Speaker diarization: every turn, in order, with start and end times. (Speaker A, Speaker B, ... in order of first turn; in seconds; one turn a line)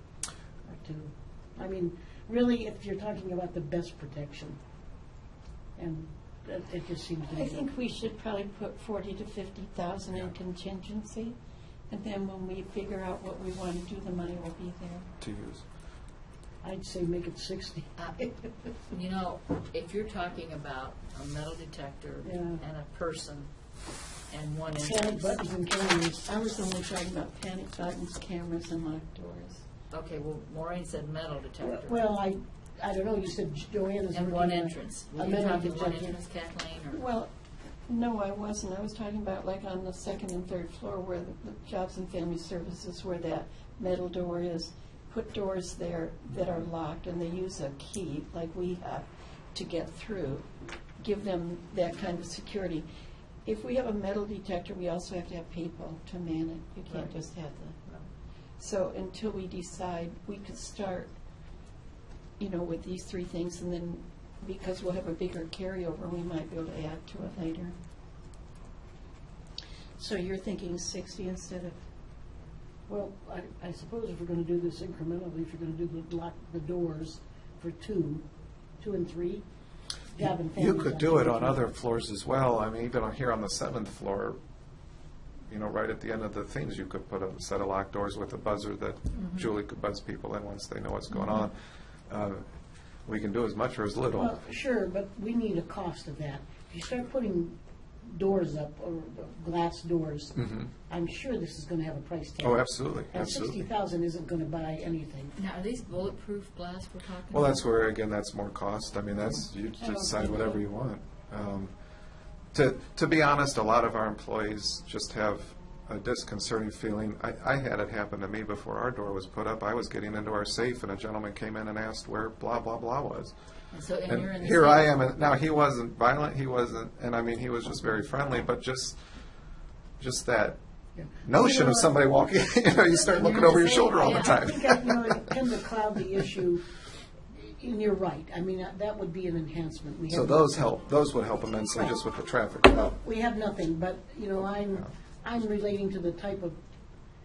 Speaker A: 0.7-4.6
Speaker A: 5.8-7.7
Speaker B: 7.3-11.4
Speaker B: 11.9-15.1
Speaker C: 15.2-15.7
Speaker A: 16.6-17.9
Speaker D: 18.0-23.5
Speaker A: 22.2-22.6
Speaker D: 24.3-25.4
Speaker A: 24.8-26.4
Speaker B: 26.3-29.6
Speaker D: 29.9-32.1
Speaker A: 31.6-36.2
Speaker D: 34.1-37.1
Speaker B: 36.9-37.3
Speaker B: 37.9-50.5
Speaker C: 46.3-46.7
Speaker B: 51.0-52.9
Speaker B: 53.5-57.8
Speaker D: 56.9-57.2
Speaker B: 58.6-61.1
Speaker B: 62.4-67.8
Speaker B: 70.0-71.8
Speaker A: 72.9-78.3
Speaker A: 78.8-79.5
Speaker A: 80.1-81.6
Speaker C: 80.2-84.4
Speaker C: 85.5-92.5
Speaker D: 89.2-89.5
Speaker C: 93.0-94.3
Speaker A: 94.1-105.4
Speaker C: 100.4-100.7
Speaker C: 102.4-103.7
Speaker D: 105.4-107.7
Speaker C: 107.3-111.7
Speaker A: 109.8-110.6
Speaker C: 112.5-123.3
Speaker D: 123.7-125.0
Speaker C: 124.1-129.0
Speaker C: 130.0-130.6
Speaker A: 131.0-132.0
Speaker C: 131.2-135.2
Speaker A: 133.1-136.7
Speaker D: 133.2-134.4
Speaker A: 137.3-140.7
Speaker C: 140.1-142.9
Speaker A: 141.7-142.0
Speaker A: 142.7-146.6